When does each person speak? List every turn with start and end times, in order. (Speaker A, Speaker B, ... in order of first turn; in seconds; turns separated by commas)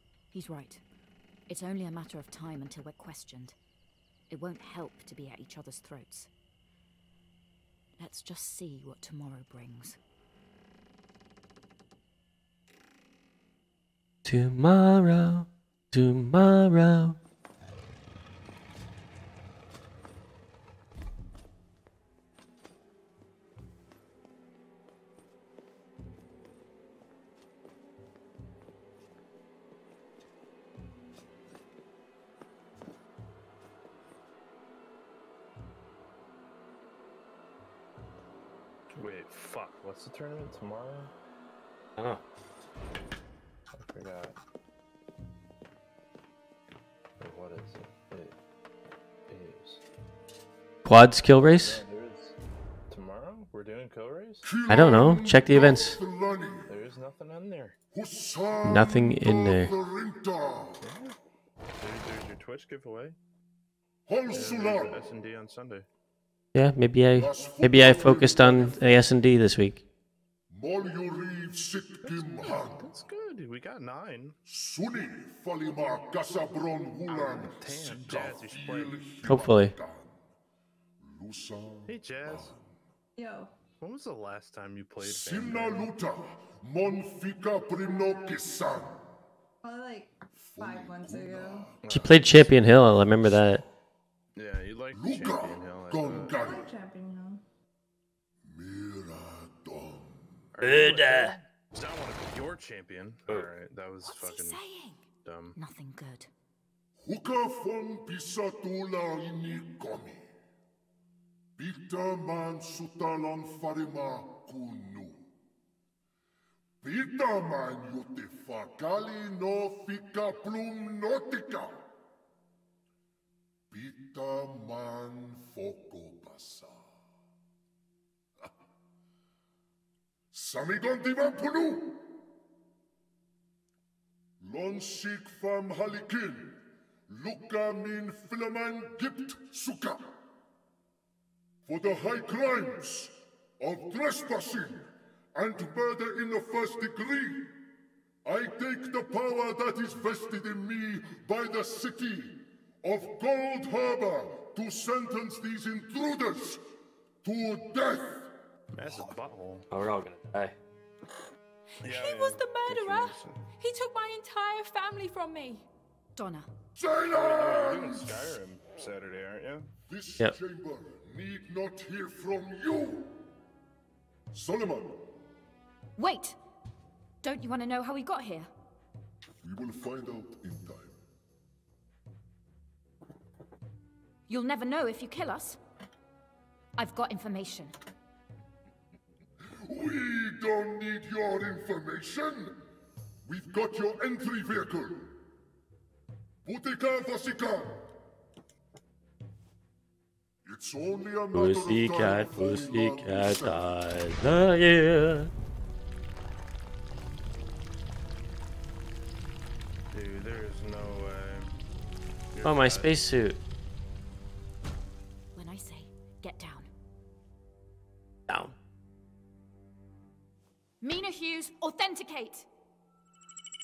Speaker A: 0.3-0.8, Speaker A: 1.5-3.6, Speaker A: 4.3-6.3, Speaker A: 8.0-10.0, Speaker B: 14.2-17.2, Speaker C: 39.0-41.1, Speaker C: 43.7-44.4, Speaker C: 47.2-48.4, Speaker C: 49.3-49.8, Speaker B: 50.9-51.8, Speaker C: 51.4-52.4, Speaker C: 52.9-54.5, Speaker D: 54.4-56.7, Speaker B: 54.7-56.0, Speaker C: 56.7-57.8, Speaker D: 57.9-60.8, Speaker B: 58.6-59.7, Speaker C: 60.8-61.1, Speaker C: 61.8-63.2, Speaker D: 64.1-65.0, Speaker C: 64.3-65.9, Speaker B: 66.5-69.8, Speaker D: 67.2-69.0, Speaker D: 70.5-72.9, Speaker C: 72.0-74.4, Speaker D: 74.5-80.2, Speaker C: 77.1-79.1, Speaker B: 79.3-79.7, Speaker D: 81.0-82.7, Speaker C: 81.9-82.5, Speaker E: 83.2-83.5, Speaker C: 83.8-85.9, Speaker D: 85.0-89.1, Speaker E: 89.6-91.7, Speaker D: 90.4-92.5, Speaker C: 91.8-92.3, Speaker B: 91.9-93.6, Speaker C: 94.4-96.5, Speaker D: 94.9-96.7, Speaker E: 96.3-97.4, Speaker D: 98.5-100.5, Speaker C: 100.5-104.6, Speaker B: 100.6-101.3, Speaker A: 104.1-105.0, Speaker C: 105.2-105.6, Speaker A: 105.6-106.3, Speaker D: 107.0-110.2, Speaker D: 111.6-115.2, Speaker D: 116.8-121.8, Speaker D: 123.7-126.9, Speaker D: 130.3-132.1, Speaker D: 134.4-140.1, Speaker D: 141.7-147.5, Speaker D: 148.2-156.6, Speaker D: 157.2-158.3, Speaker C: 158.7-159.7, Speaker B: 159.7-160.6, Speaker F: 161.8-165.7, Speaker C: 161.8-163.4, Speaker A: 166.2-166.5, Speaker D: 166.8-168.3, Speaker C: 167.1-169.7, Speaker D: 169.9-173.2, Speaker D: 174.3-175.0, Speaker A: 176.0-176.4, Speaker A: 177.2-178.5, Speaker D: 179.4-181.0, Speaker A: 184.3-185.6, Speaker A: 186.8-187.8, Speaker D: 189.7-192.6, Speaker D: 193.2-195.2, Speaker D: 196.4-197.8, Speaker D: 200.4-203.7, Speaker B: 201.3-205.3, Speaker C: 209.9-211.6, Speaker C: 212.3-212.9, Speaker B: 212.4-213.4, Speaker A: 215.3-216.7, Speaker B: 218.3-218.6, Speaker A: 220.8-222.5